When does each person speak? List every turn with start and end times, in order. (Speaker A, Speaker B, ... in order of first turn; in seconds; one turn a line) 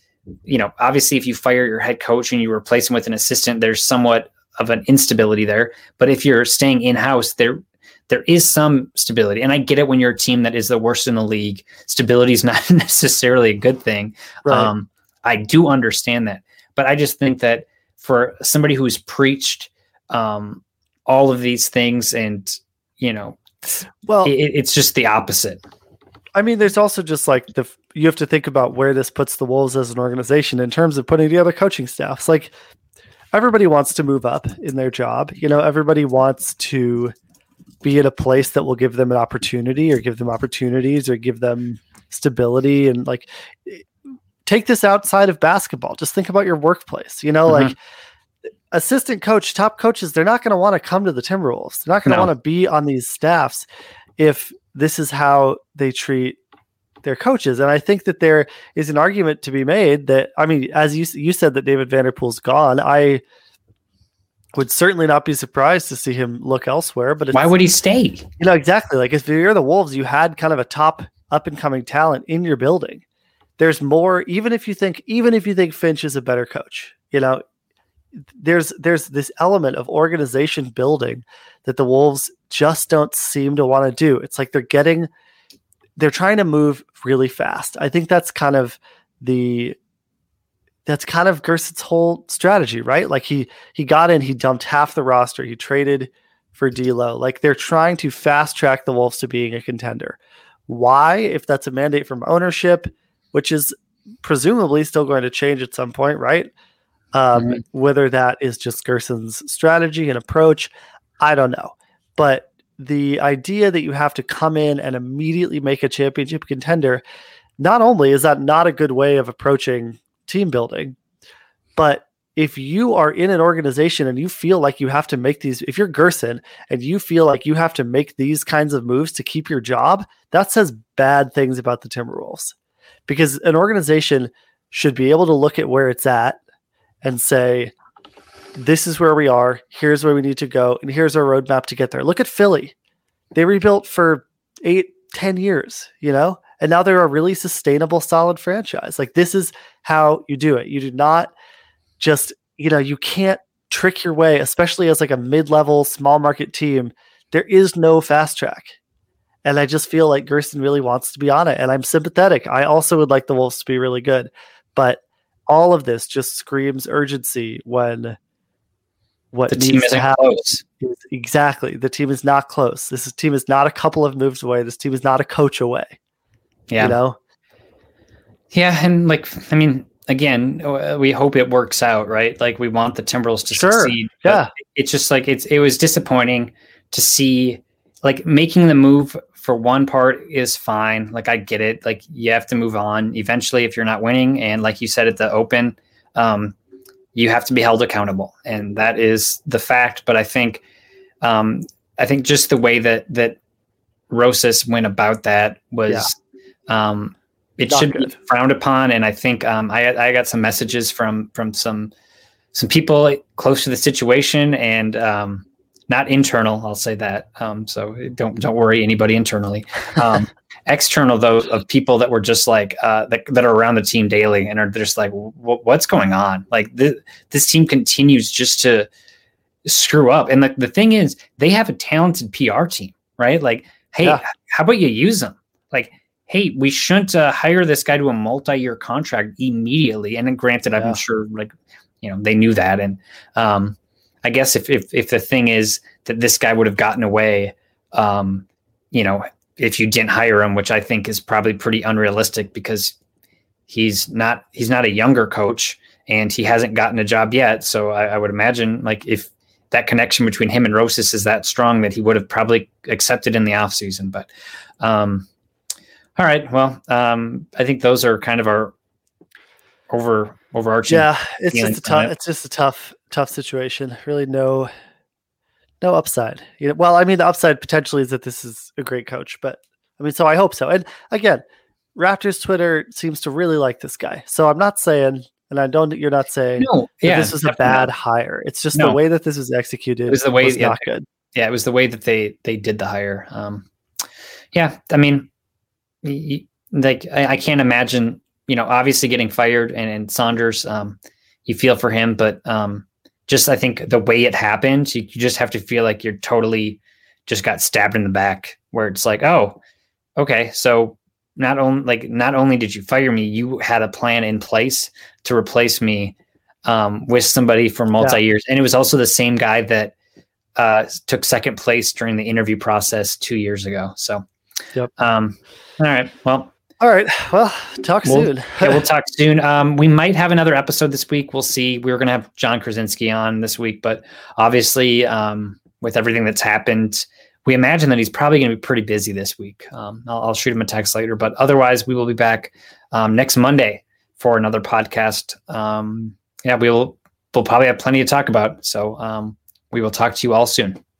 Speaker A: 0.5-25.6
Speaker B: 14.5-14.7
Speaker B: 24.1-24.4
Speaker B: 26.4-32.5
Speaker B: 33.3-37.1
Speaker B: 37.8-43.9
Speaker B: 44.5-47.8
Speaker A: 47.5-47.7
Speaker B: 48.7-53.7
Speaker A: 52.1-52.3
Speaker B: 54.2-56.4
Speaker B: 57.0-63.2
Speaker B: 64.5-67.5
Speaker A: 67.3-68.3
Speaker B: 68.4-73.0
Speaker B: 73.6-77.4
Speaker B: 78.3-85.1
Speaker B: 86.0-89.8
Speaker B: 90.9-106.5
Speaker B: 107.1-117.0
Speaker A: 107.3-107.6
Speaker B: 117.6-121.0
Speaker B: 121.8-132.6
Speaker B: 133.1-136.4
Speaker B: 137.0-137.7
Speaker B: 138.6-142.7
Speaker B: 143.3-151.3
Speaker B: 152.0-158.8
Speaker B: 159.4-168.2
Speaker B: 169.3-176.0
Speaker A: 169.5-170.6
Speaker A: 176.7-177.0
Speaker B: 176.8-177.2
Speaker A: 178.5-196.6
Speaker B: 183.5-184.5
Speaker A: 197.2-200.6
Speaker A: 201.2-203.4
Speaker A: 204.1-206.2
Speaker A: 206.7-211.9
Speaker B: 207.7-208.1
Speaker A: 212.5-228.9
Speaker A: 229.7-253.0
Speaker B: 240.7-241.0
Speaker A: 253.7-264.3
Speaker A: 264.8-265.3
Speaker A: 266.2-268.7
Speaker A: 269.9-272.1
Speaker B: 270.9-274.7
Speaker B: 275.8-281.4
Speaker B: 282.0-291.1
Speaker A: 286.6-287.9
Speaker A: 288.7-289.0
Speaker A: 290.1-293.7
Speaker A: 294.5-295.3
Speaker A: 296.0-309.6
Speaker A: 310.2-319.9
Speaker A: 320.6-324.2
Speaker A: 325.0-326.5
Speaker B: 326.8-328.8
Speaker A: 328.0-350.8